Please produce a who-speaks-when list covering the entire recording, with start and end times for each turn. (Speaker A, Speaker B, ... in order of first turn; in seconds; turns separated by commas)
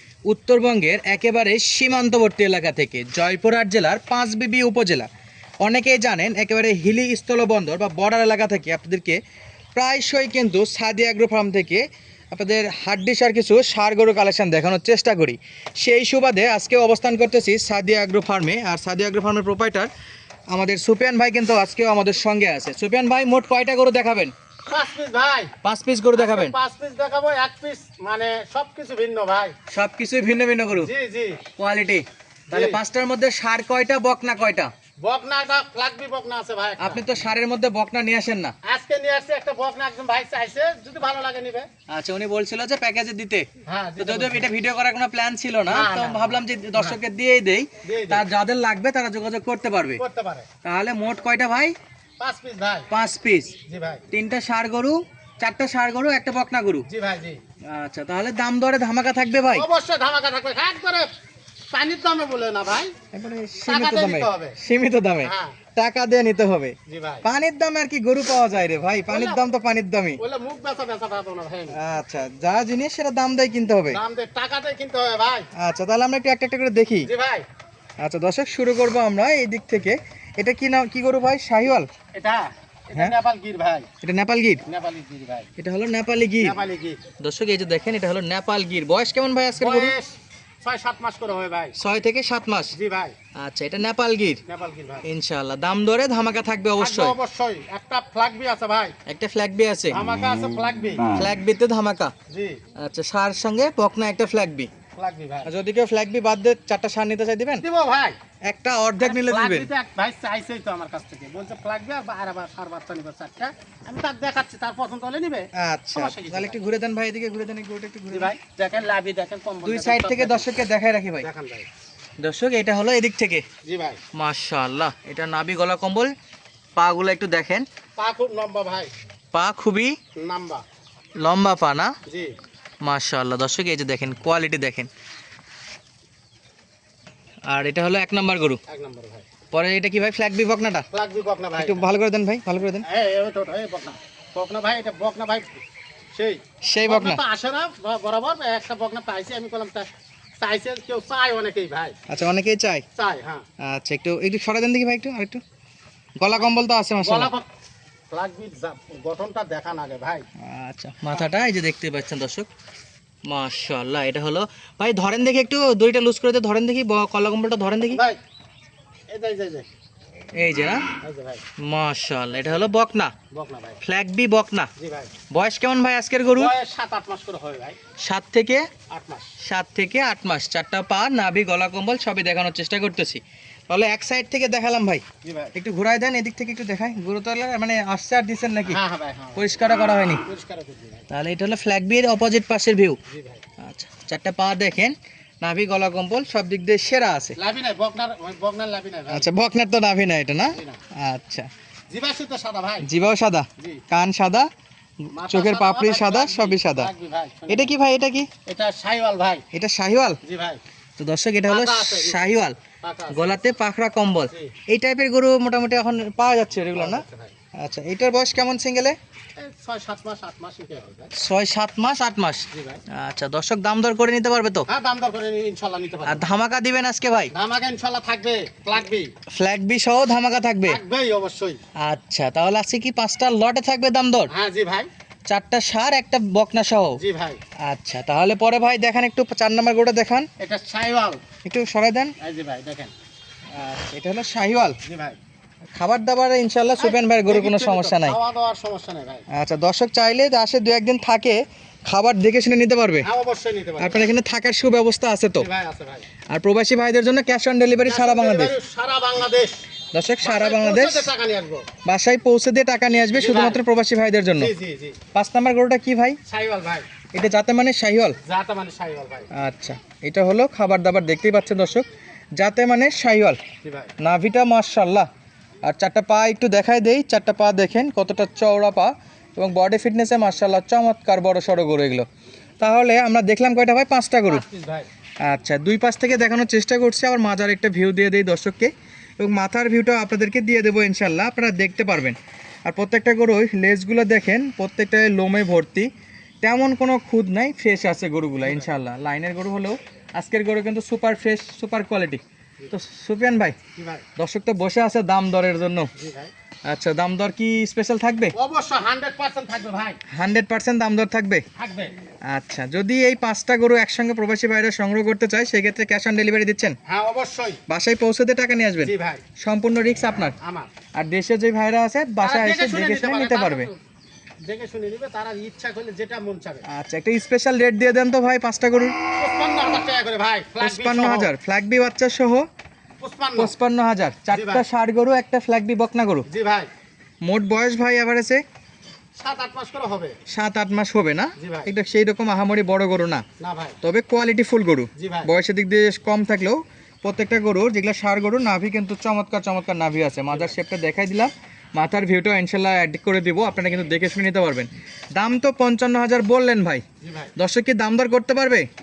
Speaker A: 0.3-5.1, Speaker A: 5.6-9.2, Speaker A: 9.7-19.9, Speaker A: 20.5-24.3, Speaker B: 24.7-25.5, Speaker A: 25.6-26.5, Speaker B: 26.1-29.5, Speaker A: 29.7-30.9, Speaker B: 30.7-31.4, Speaker A: 31.6-34.7, Speaker B: 32.5-32.8, Speaker B: 35.0-37.0, Speaker A: 36.8-38.5, Speaker B: 38.6-41.7, Speaker A: 41.9-43.5, Speaker B: 43.6-44.5, Speaker A: 44.0-50.0, Speaker B: 45.7-47.0, Speaker B: 47.8-48.2, Speaker B: 50.0-50.5, Speaker A: 50.6-51.7, Speaker B: 52.2-52.9, Speaker A: 52.9-53.5, Speaker B: 53.7-54.0, Speaker A: 54.1-56.9, Speaker B: 56.9-57.4, Speaker A: 57.7-59.7, Speaker B: 59.5-61.1, Speaker B: 61.7-62.9, Speaker A: 63.1-70.2, Speaker B: 63.6-64.5, Speaker B: 65.2-65.6, Speaker B: 66.9-67.2, Speaker B: 69.1-69.4, Speaker B: 70.2-71.8, Speaker A: 71.7-74.0, Speaker B: 73.9-75.5, Speaker A: 75.5-77.1, Speaker B: 77.0-77.4, Speaker A: 78.0-81.9, Speaker B: 82.1-83.9, Speaker A: 84.0-84.6, Speaker B: 84.7-85.5, Speaker A: 85.6-86.5, Speaker B: 86.4-87.0, Speaker A: 87.2-89.9, Speaker B: 89.6-91.7, Speaker A: 91.8-92.7, Speaker B: 92.7-93.1, Speaker A: 93.4-94.4, Speaker B: 94.5-95.1, Speaker A: 95.0-97.2, Speaker B: 96.8-98.9, Speaker A: 99.0-100.0, Speaker B: 99.9-101.1, Speaker A: 101.1-102.1, Speaker B: 102.3-102.6, Speaker A: 102.8-104.7, Speaker B: 105.0-105.5, Speaker A: 105.5-107.6, Speaker B: 107.6-108.2, Speaker A: 108.5-109.7, Speaker B: 109.0-116.6, Speaker A: 115.5-118.3, Speaker B: 118.1-120.5, Speaker A: 119.6-121.3, Speaker B: 121.2-121.7, Speaker A: 122.2-123.5, Speaker B: 123.6-124.0, Speaker A: 124.1-126.1, Speaker A: 126.8-127.7, Speaker B: 128.0-128.9, Speaker A: 129.3-129.9, Speaker B: 130.2-130.6, Speaker A: 131.2-131.9, Speaker A: 132.8-134.9, Speaker A: 137.5-138.6, Speaker B: 138.7-139.3, Speaker A: 139.5-140.8, Speaker B: 140.9-141.9, Speaker A: 141.6-142.9, Speaker B: 142.8-145.6, Speaker B: 146.1-149.9, Speaker A: 146.7-147.2, Speaker B: 150.4-152.0, Speaker A: 152.1-152.8, Speaker B: 152.9-153.4, Speaker A: 153.6-155.4, Speaker A: 156.2-157.3, Speaker B: 157.0-157.5, Speaker B: 158.1-160.2, Speaker A: 160.4-162.5, Speaker A: 163.2-168.0, Speaker B: 167.9-168.2, Speaker B: 169.1-169.7, Speaker A: 170.3-170.9, Speaker B: 171.0-171.4, Speaker A: 171.6-173.1, Speaker B: 173.3-173.8, Speaker A: 173.8-174.7, Speaker B: 174.8-175.1, Speaker A: 175.3-176.5, Speaker B: 176.3-177.8, Speaker A: 178.0-178.7, Speaker B: 178.9-179.3, Speaker A: 179.4-185.0, Speaker B: 185.2-185.5, Speaker A: 185.5-188.8, Speaker B: 188.7-189.6, Speaker A: 189.3-190.2, Speaker B: 190.2-191.1, Speaker A: 191.1-193.0, Speaker B: 193.1-193.4, Speaker A: 193.6-197.3, Speaker B: 197.4-199.3, Speaker A: 199.1-201.5, Speaker B: 200.5-200.8, Speaker B: 201.9-202.9, Speaker A: 202.8-204.5, Speaker A: 205.1-206.9, Speaker B: 205.1-207.7, Speaker A: 207.5-208.3, Speaker B: 208.5-209.4, Speaker A: 209.5-210.2, Speaker B: 210.2-210.6, Speaker A: 211.0-212.6, Speaker B: 211.5-213.3, Speaker A: 213.1-217.0, Speaker B: 214.3-214.6, Speaker B: 216.7-217.3, Speaker A: 217.6-219.0, Speaker B: 219.4-221.1, Speaker A: 221.1-224.7, Speaker B: 222.5-222.8, Speaker B: 224.7-226.2, Speaker A: 226.0-227.3, Speaker B: 227.3-229.1, Speaker A: 229.3-230.8, Speaker B: 230.6-231.6, Speaker A: 231.8-234.3, Speaker B: 234.3-234.9, Speaker A: 235.3-237.0, Speaker B: 237.0-237.4, Speaker A: 237.6-240.3, Speaker B: 240.4-241.2, Speaker A: 241.4-242.1, Speaker B: 242.2-242.9, Speaker A: 243.5-244.8, Speaker B: 244.8-245.2, Speaker A: 245.7-248.2, Speaker B: 246.8-249.2, Speaker A: 249.3-253.1, Speaker B: 253.0-254.1, Speaker A: 253.8-255.5, Speaker B: 255.4-256.1, Speaker A: 256.3-258.5, Speaker B: 257.8-259.6, Speaker A: 259.9-261.1, Speaker B: 260.2-261.7, Speaker A: 261.8-264.5, Speaker B: 263.1-263.6, Speaker B: 264.4-265.0, Speaker A: 265.1-266.2, Speaker B: 266.3-266.9, Speaker A: 267.1-268.2, Speaker B: 268.2-269.3, Speaker A: 269.3-271.9, Speaker A: 272.4-273.4, Speaker B: 273.6-273.9, Speaker A: 274.0-275.1, Speaker A: 275.6-282.1, Speaker A: 282.6-284.4, Speaker B: 284.3-284.9, Speaker A: 285.2-295.9, Speaker A: 296.4-303.6, Speaker B: 303.7-304.0, Speaker A: 304.2-305.9, Speaker B: 305.9-306.3, Speaker A: 306.6-308.3, Speaker B: 308.3-310.0, Speaker A: 310.1-311.4, Speaker B: 311.6-311.9, Speaker A: 312.3-316.8, Speaker B: 316.9-317.6, Speaker A: 317.7-320.4, Speaker B: 318.8-319.2, Speaker B: 320.4-320.7, Speaker A: 320.9-323.7, Speaker B: 322.2-323.8, Speaker B: 324.4-326.6, Speaker A: 326.7-328.9, Speaker B: 329.1-331.3, Speaker A: 330.6-332.4, Speaker B: 333.0-333.5, Speaker A: 333.4-336.2, Speaker B: 334.3-334.6, Speaker B: 336.3-336.7, Speaker A: 337.2-338.4, Speaker B: 339.2-340.1, Speaker A: 340.3-343.2, Speaker B: 341.4-341.7, Speaker B: 343.4-343.8, Speaker A: 343.8-356.8, Speaker B: 344.9-345.3, Speaker B: 350.3-350.5, Speaker B: 357.0-357.3, Speaker A: 357.4-358.7